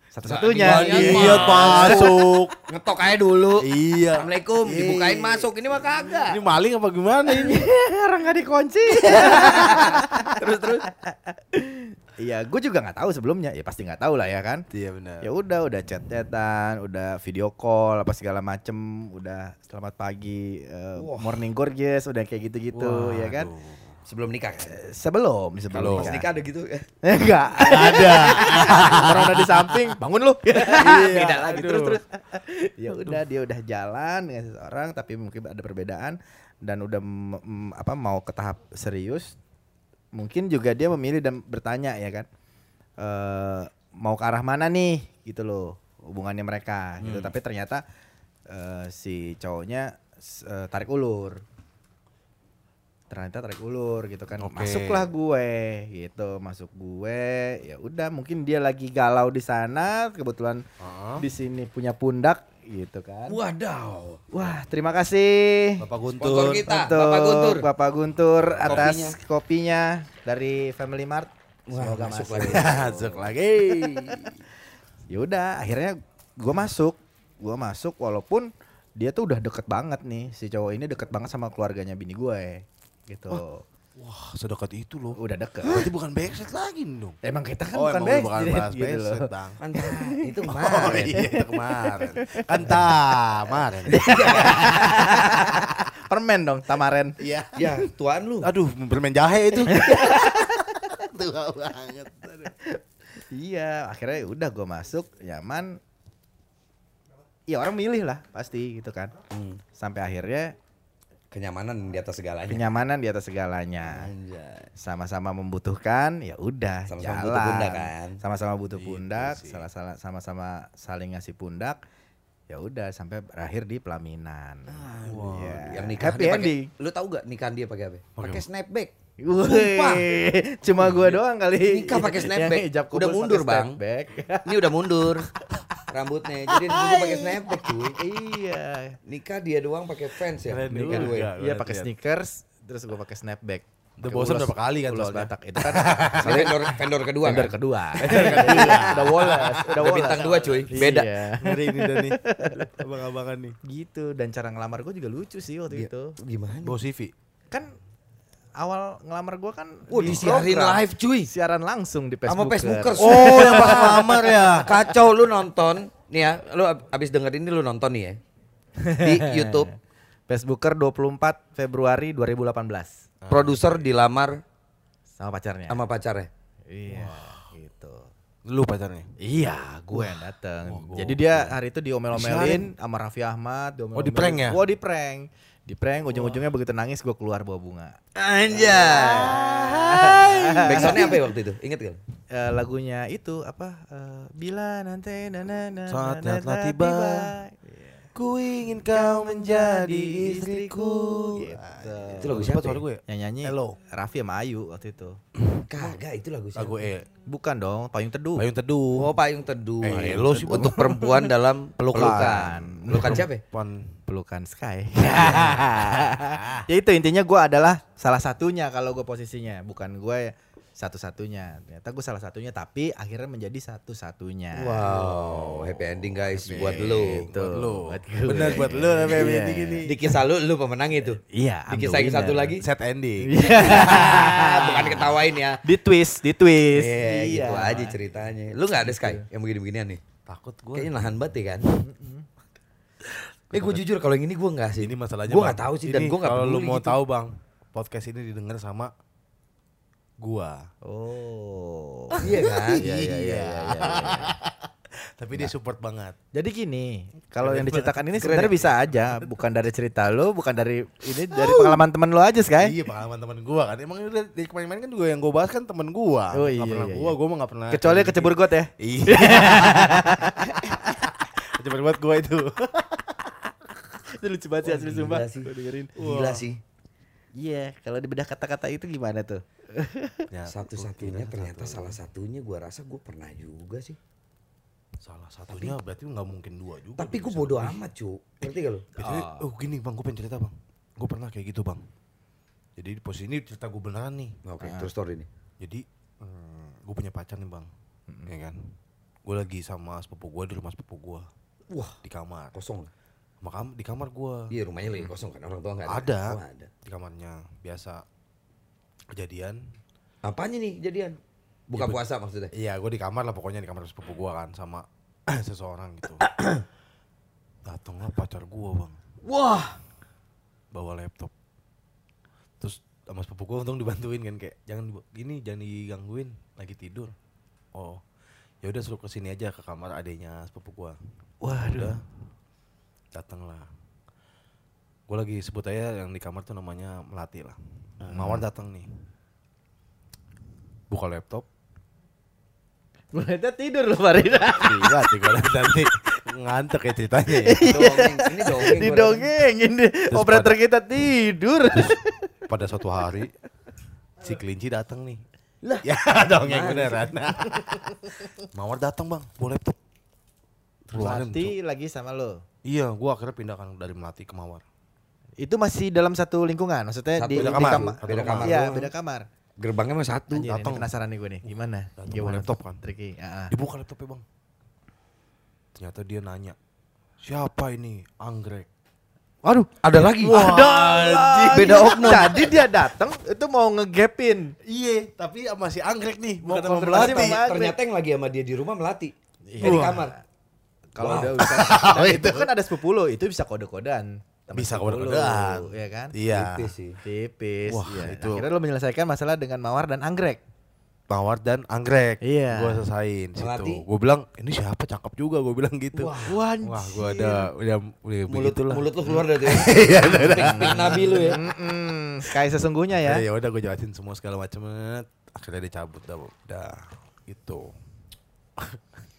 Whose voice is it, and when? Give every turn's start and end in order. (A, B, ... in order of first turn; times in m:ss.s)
0:00.1-0:02.2 A
0:00.2-0:06.5 B
0:00.5-0:02.5 C
0:03.6-0:05.5 C
0:06.3-0:07.7 C
0:07.2-0:14.6 A
0:08.9-0:10.8 B
0:14.7-0:15.3 C
0:15.2-0:23.5 A
0:21.0-0:21.5 B
0:22.7-0:24.0 C
0:24.0-0:24.8 B
0:24.7-0:26.3 A
0:25.7-0:26.8 B
0:25.7-0:26.2 C
0:27.0-0:39.4 A
0:27.6-0:30.0 C
0:30.7-0:32.0 B
0:30.8-0:32.0 C
0:32.9-0:33.2 C
0:40.1-0:42.3 A
0:43.0-0:47.8 A
0:47.0-0:47.3 C
0:48.5-0:51.4 A
0:53.1-1:00.6 A
0:54.4-0:55.1 C
1:00.8-1:01.2 C
1:01.2-1:03.4 A
1:03.3-1:04.5 B
1:04.3-1:13.3 A
1:05.8-1:06.6 C
1:06.2-1:07.7 B
1:08.4-1:09.0 C
1:08.6-1:09.2 B
1:11.7-1:12.8 B
1:12.4-1:14.4 C
1:13.7-1:14.1 B
1:15.1-1:23.6 A
1:24.0-1:27.2 C
1:25.2-1:25.9 A
1:27.2-1:30.3 A
1:27.7-1:29.6 C
1:29.6-1:31.2 B
1:30.4-1:34.5 C
1:30.8-1:32.9 A
1:33.9-1:37.1 A
1:33.9-1:35.5 B
1:37.2-1:42.5 C
1:37.6-1:38.5 B
1:39.7-1:40.9 A
1:43.2-1:45.8 A
1:47.5-1:49.1 A
1:49.3-1:49.6 B
1:49.7-1:50.5 A
1:51.3-1:52.7 B
1:52.5-1:54.1 A
1:53.8-1:54.7 B
1:54.8-2:01.8 A
1:56.9-1:58.2 B
1:58.7-1:59.7 C
2:02.5-2:06.7 A
2:04.7-2:08.9 B
2:05.0-2:05.7 C
2:08.2-2:08.4 C
2:09.2-2:15.6 A
2:09.4-2:10.1 B
2:10.7-2:11.1 C
2:10.9-2:13.8 B
2:14.4-2:15.2 B
2:15.9-2:18.0 B
2:16.5-2:17.4 A
2:17.9-2:19.0 A
2:19.0-2:21.3 B
2:20.4-2:21.9 C
2:20.8-2:32.7 A
2:24.0-2:26.3 C
2:26.2-2:27.6 B
2:28.0-2:33.6 C
2:28.1-2:31.1 B
2:33.6-2:36.2 A
2:35.7-2:36.8 B
2:36.6-2:37.1 C
2:38.6-2:44.6 A
2:39.9-2:41.3 B
2:42.3-2:48.2 B
2:42.9-2:44.8 C
2:48.8-2:49.7 A
2:49.0-2:49.7 B
2:50.3-2:52.9 A
2:53.2-2:53.8 C
2:53.3-2:54.4 B
2:55.2-2:55.8 A
2:55.7-2:56.3 B
2:56.7-2:58.1 A
2:56.9-2:57.4 C
2:58.4-2:59.1 C
2:59.2-3:08.0 A
2:59.9-3:01.6 C
3:02.1-3:02.7 C
3:03.9-3:04.6 C
3:08.2-3:12.0 B
3:08.5-3:11.2 A
3:09.2-3:11.0 C
3:12.3-3:18.0 A
3:15.9-3:17.4 C
3:18.1-3:23.8 C
3:18.9-3:22.5 A
3:22.2-3:22.8 B
3:23.0-3:25.2 A
3:25.4-3:26.0 C
3:25.7-3:26.9 B
3:26.5-3:27.1 C
3:27.3-3:28.5 A
3:28.4-3:29.1 C
3:28.9-3:33.4 B
3:29.8-3:34.0 C
3:31.9-3:33.2 A
3:34.1-3:44.9 A
3:35.1-3:36.6 C
3:44.5-3:47.3 B
3:44.8-3:50.0 C
3:46.5-3:49.9 A
3:49.8-3:52.7 B
3:51.3-3:52.6 A
3:52.6-3:54.4 C
3:53.2-3:58.0 A
3:53.6-3:55.6 B
3:56.7-3:58.2 C
3:56.9-4:00.0 B
3:58.8-3:59.2 A
4:00.3-4:01.0 C
4:00.7-4:01.7 B
4:01.8-4:02.3 A
4:03.5-4:07.0 B
4:03.5-4:03.8 C
4:04.8-4:08.9 C
4:10.2-4:10.7 C
4:10.8-4:12.2 A
4:12.1-4:14.7 C
4:12.2-4:12.8 B
4:12.8-4:14.4 A
4:15.2-4:16.2 C
4:16.3-4:22.8 A
4:17.4-4:19.3 C
4:18.2-4:18.7 B
4:21.1-4:21.8 C
4:22.5-4:33.3 C
4:26.3-4:27.2 A
4:27.7-4:30.5 A
4:34.2-4:35.9 A
4:34.6-4:36.6 B
4:36.0-4:36.5 C
4:37.4-4:40.3 A
4:40.3-4:42.0 C
4:40.5-4:44.0 B
4:45.0-4:47.8 C
4:45.5-4:45.8 B
4:47.0-4:48.9 B
4:49.0-4:49.5 A
4:49.0-4:51.9 C
4:52.8-4:54.4 C
4:54.4-4:55.3 B
4:54.6-4:54.9 A
4:55.6-4:57.7 C
4:58.2-5:01.3 C
5:01.7-5:02.0 B
5:02.0-5:02.5 C
5:02.5-5:02.9 B
5:03.4-5:04.5 C
5:04.5-5:06.7 B
5:05.9-5:08.0 C
5:09.1-5:09.7 C
5:10.2-5:11.2 B
5:11.7-5:12.5 B
5:11.7-5:12.0 C
5:12.5-5:16.2 C
5:17.6-5:19.0 C
5:19.2-5:19.8 B
5:20.7-5:21.3 C
5:22.6-5:27.1 C
5:27.7-5:28.0 C
5:28.6-5:31.0 C
5:31.4-5:32.0 A
5:31.5-5:32.0 C
5:33.1-5:33.7 C
5:35.1-5:38.9 C
5:38.0-5:38.4 B
5:40.9-5:41.4 C
5:43.1-5:45.4 A
5:44.3-5:47.8 C
5:47.3-5:52.4 A
5:47.6-5:49.3 B
5:50.1-5:50.6 C
5:52.5-5:53.3 C
5:54.2-5:55.2 C
5:55.6-5:57.2 B
5:55.8-5:58.0 C
5:58.5-5:59.8 C
6:00.9-6:01.5 C
6:00.9-6:02.4 A
6:02.6-6:04.6 C
6:05.4-6:09.2 A
6:07.2-6:08.9 B
6:07.3-6:08.6 C
6:09.6-6:10.5 B
6:10.3-6:13.5 A
6:10.4-6:10.9 C
6:12.0-6:12.8 C
6:13.5-6:14.2 C
6:15.7-6:16.6 C
6:17.2-6:18.7 C
6:19.4-6:22.7 C
6:19.8-6:20.5 B
6:20.2-6:24.5 A
6:21.5-6:22.3 B
6:24.6-6:27.4 C
6:26.4-6:30.1 B
6:26.8-6:27.8 A
6:29.5-6:30.1 A
6:29.6-6:30.1 C
6:30.9-6:36.2 A
6:31.0-6:31.5 B
6:31.2-6:32.5 C
6:34.5-6:36.7 C
6:36.3-6:37.0 B
6:37.0-6:40.4 A
6:37.7-6:38.4 C
6:41.1-6:51.2 C
6:42.2-6:42.8 A
6:43.4-6:43.8 B
6:45.9-6:46.4 B
6:46.2-6:47.5 A
6:48.3-6:51.4 B
6:50.2-6:53.2 A
6:53.0-6:57.7 C